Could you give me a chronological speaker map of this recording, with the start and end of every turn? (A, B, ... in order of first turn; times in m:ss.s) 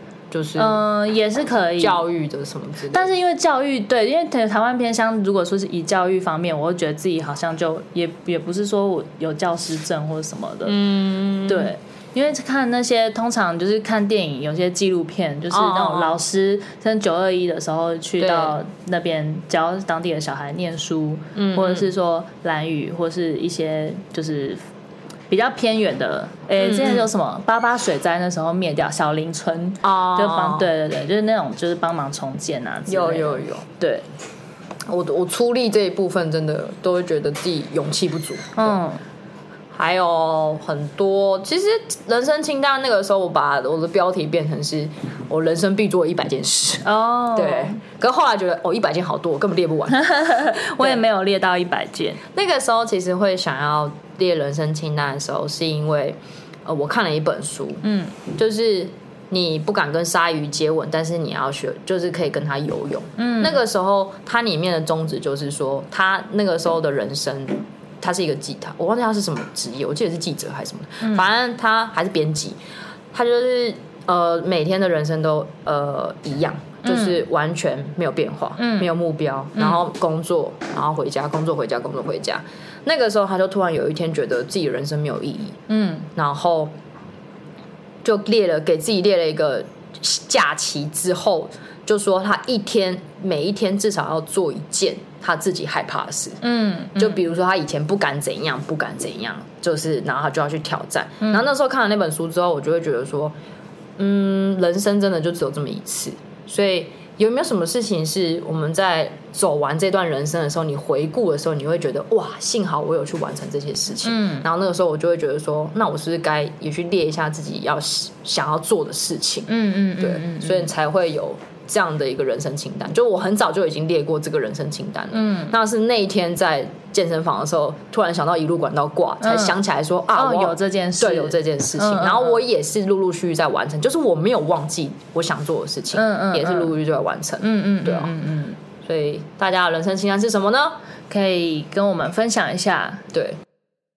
0:00.3-0:00.8 A
0:00.6-0:02.0 B
0:01.8-0:03.1 A
0:02.9-0:10.8 B
0:10.7-0:11.7 A
0:11.5-0:24.6 B
0:15.5-0:16.2 A
0:18.2-0:18.6 A
0:21.4-0:21.9 A
0:25.3-0:34.0 B
0:26.6-0:27.1 A
0:29.8-0:30.7 A
0:32.9-0:33.6 A
0:34.9-0:38.8 A
0:38.6-0:39.0 B
0:39.7-0:51.0 A
0:46.8-0:47.8 B
0:49.9-0:52.2 B
0:52.3-1:12.6 A
0:57.8-0:58.2 B
1:03.2-1:03.6 B
1:13.1-1:25.6 A
1:16.8-1:17.2 B
1:18.6-1:19.0 B
1:19.6-1:19.9 B
1:25.7-1:26.1 B
1:26.2-1:26.7 A
1:28.0-1:36.4 A
1:36.4-1:37.2 B
1:37.0-1:43.4 A
1:41.2-1:41.5 B
1:44.0-2:18.1 A
1:54.0-1:54.5 B
1:59.5-2:00.7 B
2:05.1-2:05.6 B
2:09.2-2:09.6 B
2:10.1-2:12.4 B
2:15.9-2:16.7 B
2:17.4-2:18.6 B
2:18.8-2:20.8 A
2:21.1-2:23.0 B
2:23.1-2:23.4 A